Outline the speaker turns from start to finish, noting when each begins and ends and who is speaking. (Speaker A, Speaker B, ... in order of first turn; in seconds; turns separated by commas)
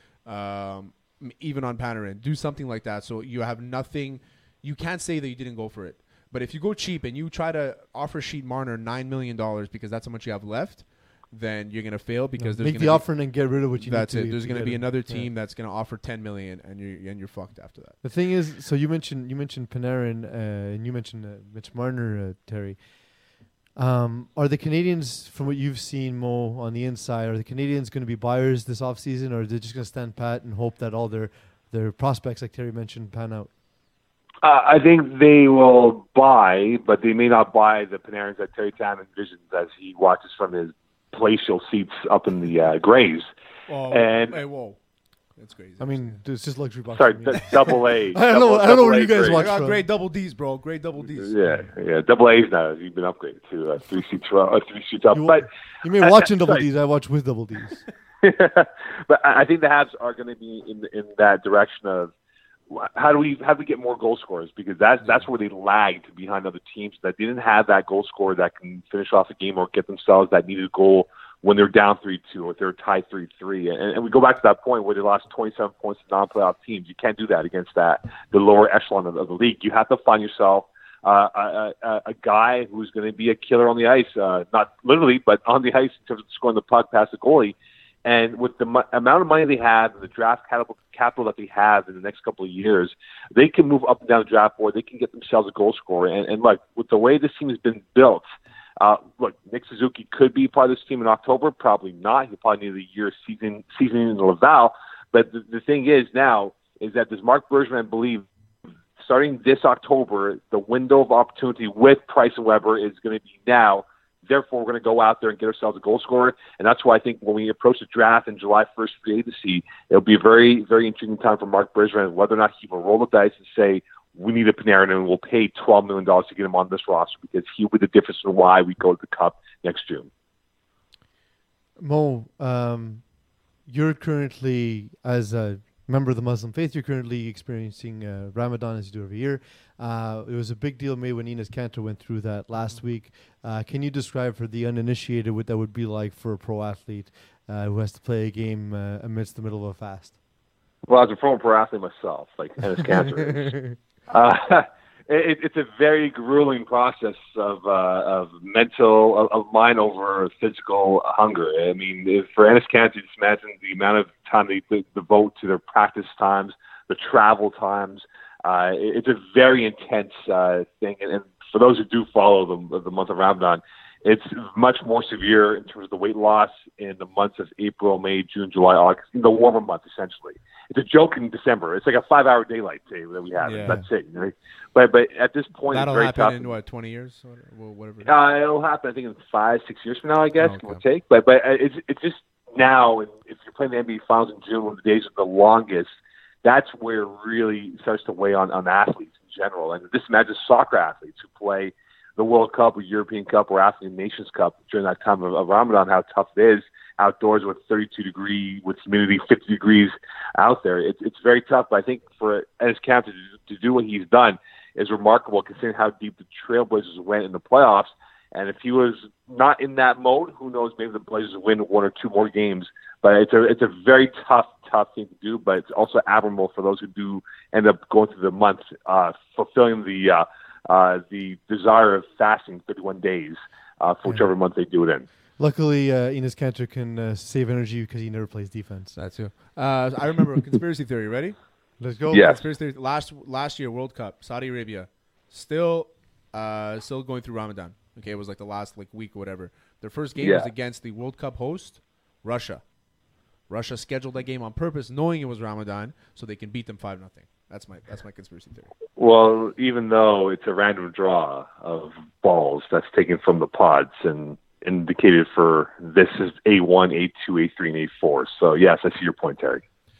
Speaker A: 0.2-18.0, Speaker B: 12.4-15.3, Speaker B: 18.0-22.8, Speaker B: 23.8-33.5, Speaker C: 34.4-43.3, Speaker A: 43.7-44.8, Speaker C: 43.9-44.4, Speaker A: 45.4-46.2, Speaker B: 45.8-49.9, Speaker C: 46.9-49.5, Speaker A: 49.3-51.5, Speaker C: 51.1-56.6, Speaker B: 55.1-57.8, Speaker C: 58.2-62.1, Speaker C: 62.7-98.2, Speaker C: 98.8-108.2, Speaker C: 109.0-130.1, Speaker B: 131.8-133.1, Speaker B: 133.7-150.2, Speaker C: 150.9-153.6, Speaker B: 153.1-153.8, Speaker C: 154.1-186.6, Speaker A: 183.4-183.8, Speaker A: 185.7-188.1, Speaker C: 188.0-195.9, Speaker A: 190.4-190.8, Speaker C: 196.4-235.1, Speaker B: 235.4-239.0, Speaker A: 238.9-241.4, Speaker B: 241.8-242.2, Speaker C: 242.1-242.4, Speaker A: 242.1-252.7, Speaker C: 250.2-250.5, Speaker A: 253.5-258.7, Speaker C: 259.0-269.6